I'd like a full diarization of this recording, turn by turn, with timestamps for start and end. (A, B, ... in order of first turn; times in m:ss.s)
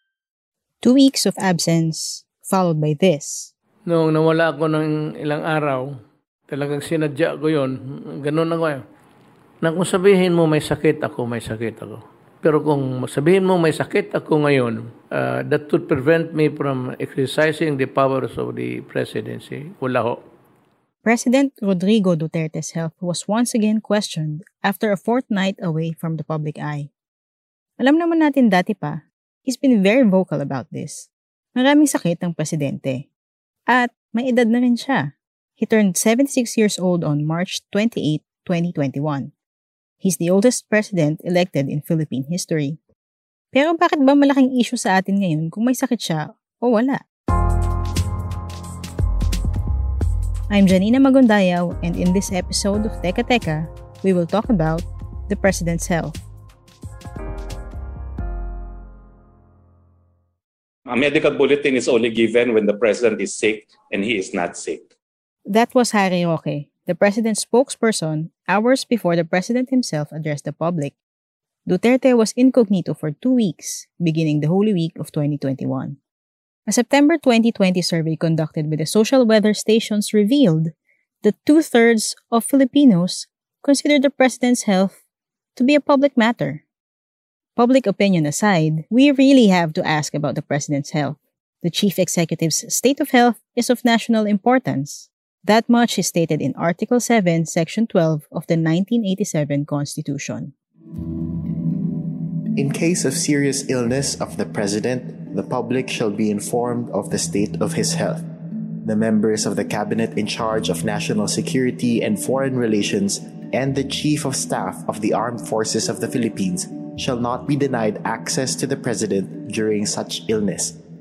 0:00.8-0:03.5 A
0:03.9-0:05.9 B
0:06.5-0:08.8 B
0:09.6-0:20.2 B
0:21.0-0:26.9 A
0:27.8-0:33.1 A
0:33.7-0:39.3 A
0:40.0-0:42.8 A
0:43.5-0:47.0 A
0:50.5-0:56.2 A
1:00.8-1:04.9 C
1:05.5-1:11.0 A
1:11.7-1:16.0 A
1:16.7-1:25.0 A
1:25.6-1:26.6 A
1:27.6-1:40.5 A
1:42.5-1:48.2 D
1:48.8-2:00.8 D